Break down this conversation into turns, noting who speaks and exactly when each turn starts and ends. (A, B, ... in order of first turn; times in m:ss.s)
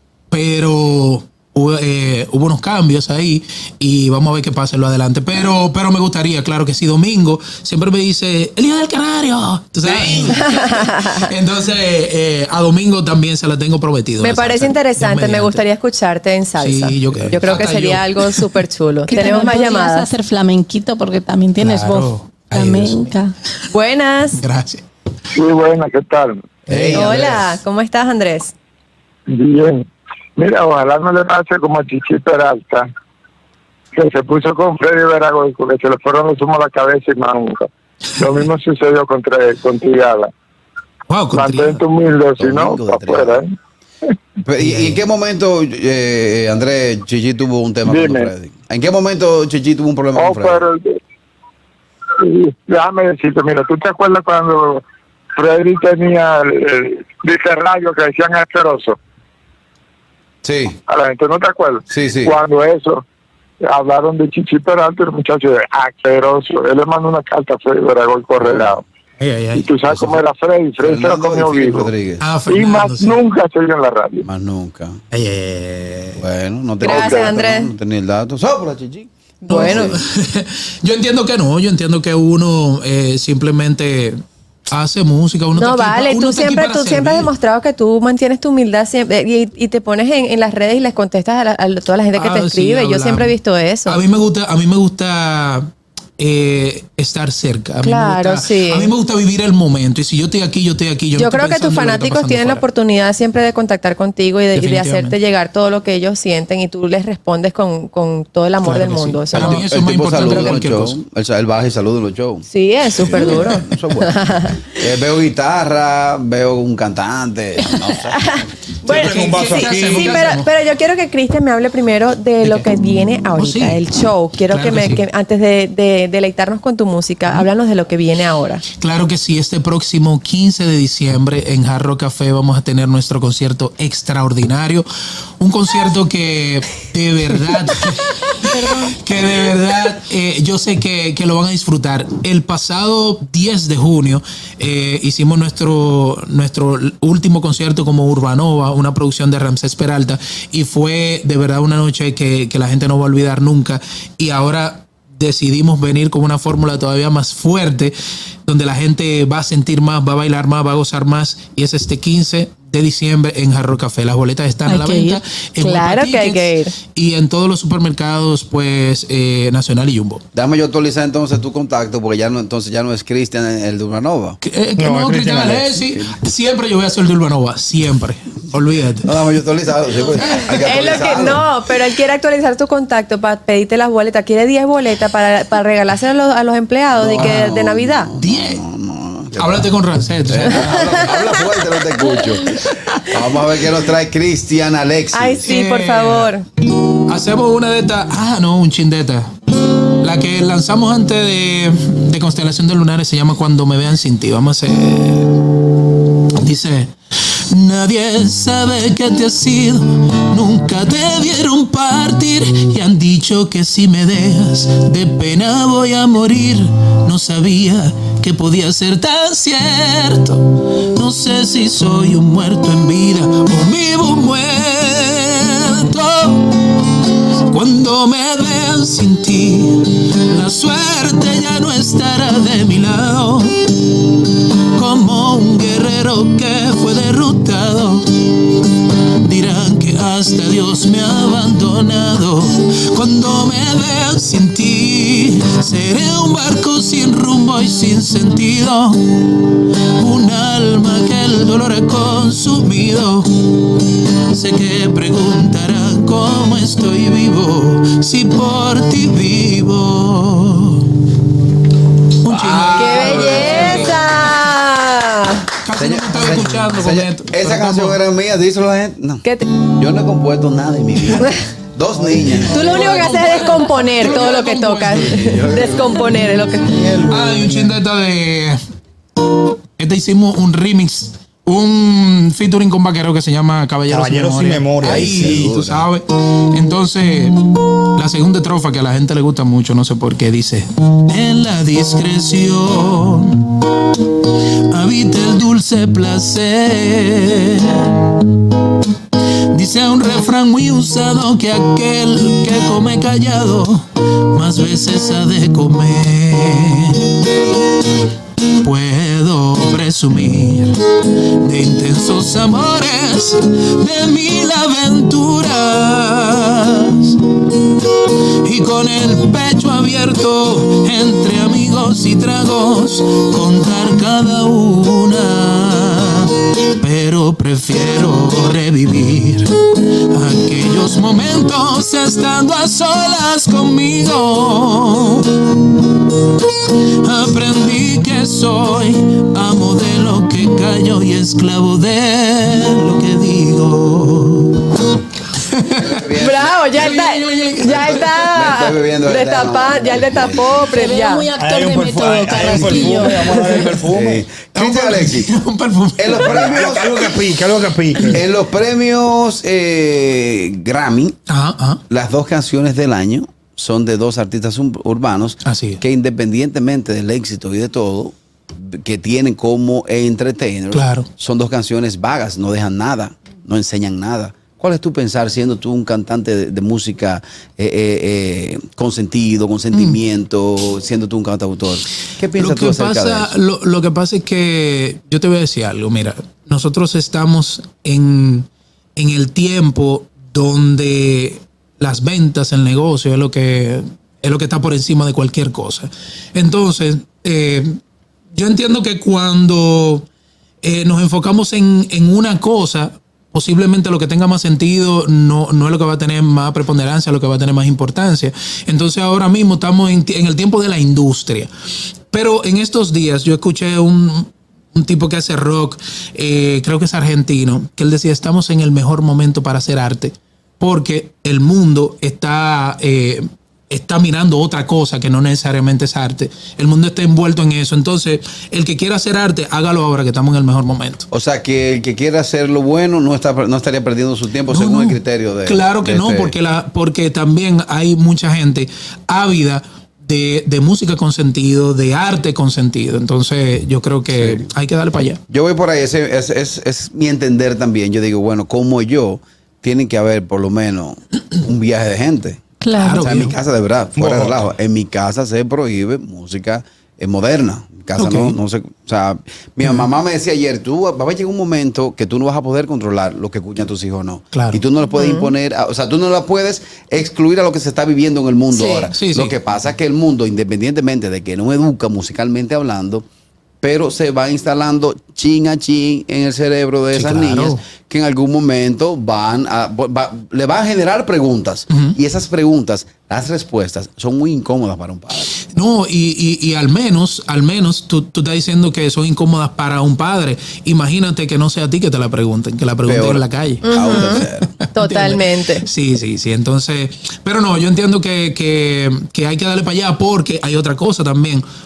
0:00.3-0:15.6 A
0:09.8-0:10.4 B
0:10.2-0:11.3 C
0:14.2-0:20.1 C
0:16.6-0:18.6 A
0:19.1-0:23.3 D
0:21.6-0:23.2 A
0:23.7-0:24.4 C
0:24.4-0:24.8 A
0:25.4-0:26.4 E
0:26.7-0:27.6 B
0:26.8-0:27.3 F
0:26.9-0:28.5 C
0:29.3-0:29.8 E
0:30.4-0:32.8 E
0:34.0-0:37.7 E
0:38.2-0:40.3 E
0:41.1-0:41.8 A
0:41.3-0:43.5 E
0:42.4-0:43.4 B
0:44.5-0:50.6 B
0:44.6-0:45.0 A
0:47.9-0:48.3 E
0:50.2-0:50.9 E
0:52.2-0:54.8 E
0:55.4-0:59.0 E
1:00.4-1:00.8 B
1:00.9-1:03.0 E
1:01.9-1:02.4 B
1:03.7-1:08.8 E
1:08.4-1:08.7 B
1:09.2-1:10.2 A
1:09.6-1:11.9 E
1:10.8-1:12.3 B
1:12.2-1:13.2 A
1:12.5-1:14.2 E
1:14.2-1:15.0 B
1:15.1-1:16.2 A
1:16.2-1:20.0 B
1:16.8-1:17.7 C
1:16.9-1:17.2 E
1:19.4-1:19.9 C
1:19.4-1:24.2 A
1:24.7-1:27.3 A
1:25.6-1:34.0 C
1:32.1-1:33.3 A
1:33.9-1:42.6 A
1:37.8-1:38.9 C
1:41.2-1:49.6 C
1:44.5-1:45.2 A
1:48.6-1:51.0 A
1:49.3-1:54.2 B
1:52.5-1:54.7 C
1:54.7-1:58.3 B
1:58.1-2:08.6 C
1:58.8-2:00.5 A
1:58.9-2:00.3 F
2:03.4-2:03.8 A
2:04.5-2:05.0 A
2:08.8-2:14.9 A
2:15.4-2:38.0 A
2:38.5-2:50.2 A
2:44.7-2:45.2 D
2:45.6-2:46.7 C
2:50.3-2:54.4 B
2:54.4-2:59.1 A
2:54.8-2:55.8 F
2:55.8-2:56.2 B
2:59.0-3:01.4 B
3:00.2-3:00.5 A
3:00.6-3:08.1 C
3:07.0-3:09.7 B
3:07.2-3:07.5 A
3:08.2-3:08.6 A
3:09.4-3:11.2 A
3:10.3-3:15.5 B
3:10.5-3:11.1 C
3:15.1-3:16.4 C
3:15.4-3:16.3 A
3:17.1-3:19.3 A
3:20.0-3:25.4 A
3:26.4-3:26.9 A
3:27.5-3:46.8 A
3:47.5-3:54.0 A
3:54.7-3:58.5 A
3:59.2-4:13.7 A
4:14.3-4:20.9 A
4:22.2-4:24.1 A
4:22.3-4:23.9 B
4:22.7-4:25.4 C
4:25.6-4:28.0 A
4:25.8-4:32.6 B
4:32.1-4:33.1 F
4:32.5-4:35.4 A
4:32.5-4:36.7 C
4:35.0-4:36.0 B
4:36.7-4:37.8 F
4:37.0-4:38.6 A
4:39.8-4:53.5 A
4:43.9-4:45.4 F
4:44.8-4:45.9 B
4:54.7-4:57.9 A
4:59.5-5:07.3 A
5:08.6-5:10.8 A
5:11.4-5:17.2 A
5:18.4-5:29.5 A
5:30.1-5:35.4 A
5:37.0-5:44.8 A
5:45.4-5:46.0 A
5:45.8-5:46.6 B
5:46.2-5:51.3 C
5:46.7-5:48.1 A
5:47.7-5:50.7 B
5:50.7-5:53.7 D
5:51.4-5:54.2 F
5:52.6-5:53.7 C
5:53.9-5:55.3 B
5:54.5-5:56.7 A
5:56.0-5:57.1 B
5:56.2-5:58.3 F
5:58.1-6:01.2 B
6:01.3-6:01.8 A
6:01.9-6:23.3 B
6:05.4-6:05.8 A
6:10.7-6:11.1 A
6:19.7-6:20.0 A
6:22.4-6:37.8 A
6:38.3-6:40.1 A
6:40.6-6:51.5 A
6:52.1-7:11.1 A
7:11.1-7:16.4 B
7:14.5-7:25.2 A
7:24.1-7:24.5 B
7:25.3-7:32.4 B
7:32.6-7:33.0 D
7:32.7-7:33.4 A
7:33.0-7:53.0 B
7:34.0-7:34.5 F
7:38.0-7:38.4 A
7:44.3-7:44.6 A
7:44.9-7:45.3 C
7:48.6-7:48.8 C
7:48.9-7:49.4 A
7:53.6-8:05.3 B
7:56.9-7:57.6 A
8:01.7-8:02.0 A
8:05.5-8:21.4 A
8:12.8-8:14.5 B
8:13.6-8:14.2 C
8:14.8-8:15.6 C